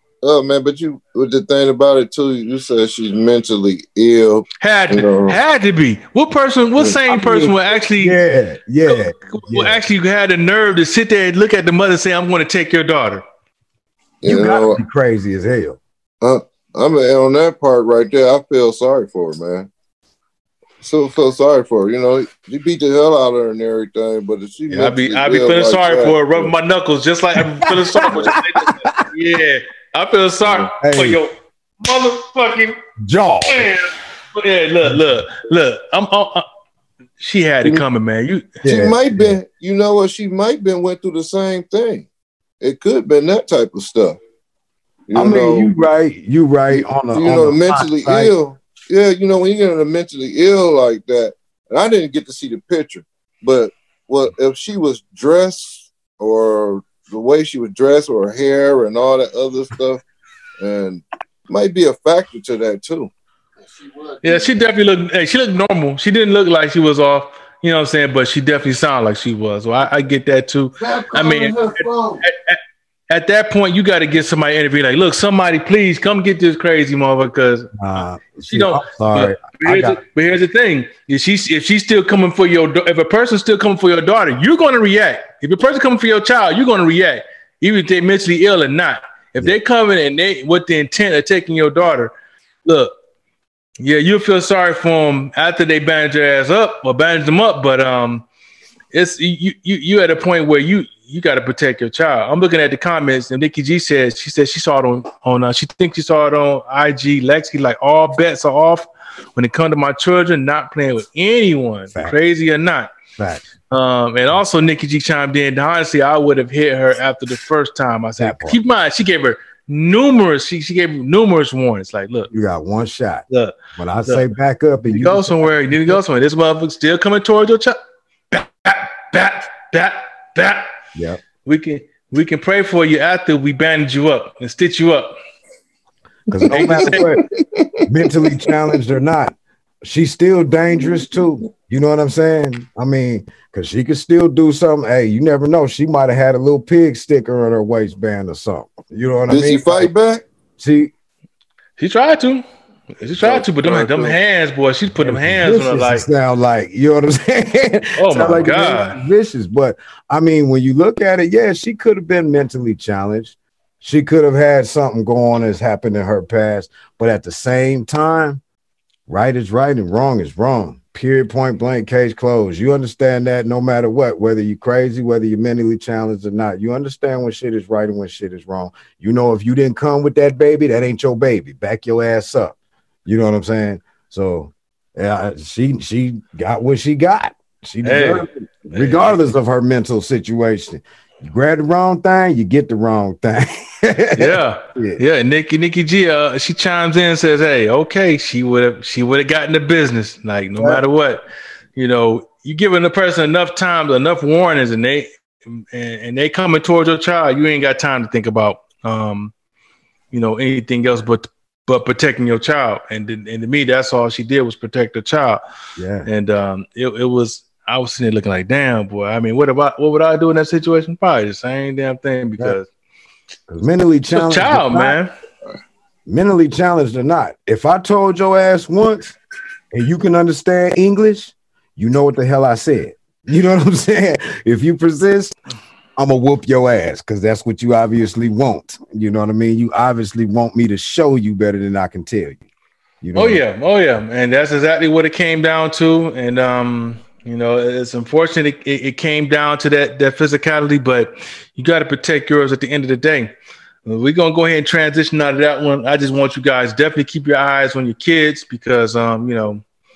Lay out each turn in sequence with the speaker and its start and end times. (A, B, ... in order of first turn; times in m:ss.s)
0:00.2-0:05.4 A
0:04.6-0:08.2 B
0:07.1-0:09.8 C
0:08.8-0:13.2 B
0:14.2-0:14.8 A
0:14.2-0:15.8 C
0:16.2-0:19.7 A
0:20.8-0:26.5 A
0:24.7-0:32.8 B
0:27.7-0:29.0 C
0:30.8-0:31.2 C
0:33.0-0:33.8 C
0:33.5-0:36.4 B
0:37.2-0:38.6 B
0:38.6-0:39.4 C
0:38.6-0:42.1 A
0:42.6-0:44.2 A
0:45.1-0:45.7 A
0:45.1-0:48.3 C
0:46.7-1:00.0 A
1:00.6-1:03.1 A
1:04.2-1:12.6 B
1:10.8-1:12.2 A
1:13.1-1:17.7 B
1:17.8-1:20.0 C
1:18.5-1:32.1 B
1:32.6-1:32.9 B
1:33.8-1:38.2 B
1:38.9-1:52.9 B
1:53.2-1:53.5 C
1:53.7-2:02.3 B
1:58.2-1:58.6 C
2:02.3-2:06.0 C
2:03.3-2:03.5 B
2:04.8-2:07.8 B
2:08.3-2:10.6 B
2:10.9-2:11.2 C
2:11.4-2:15.1 B
2:16.3-2:17.2 C
2:16.3-2:18.4 A
2:16.5-2:17.1 B
2:17.8-2:29.9 C
2:29.3-2:30.2 A
2:30.6-2:30.9 C
2:31.8-2:32.4 B
2:33.0-2:36.1 B
2:33.2-2:34.2 A
2:35.0-2:48.4 C
2:38.0-2:39.0 B
2:49.1-3:15.0 C
3:07.8-3:09.2 B
3:14.2-3:21.2 B
3:20.6-3:20.8 C
3:21.7-3:29.3 B
3:30.1-3:35.4 B
3:35.8-3:36.1 C
3:36.0-3:42.7 B
3:43.5-3:45.0 C
3:44.1-3:45.1 B
3:46.0-3:49.2 C
3:49.7-3:55.4 C
3:56.0-4:02.4 C
4:03.0-4:03.4 C
4:03.1-4:13.3 B
4:13.8-4:19.6 B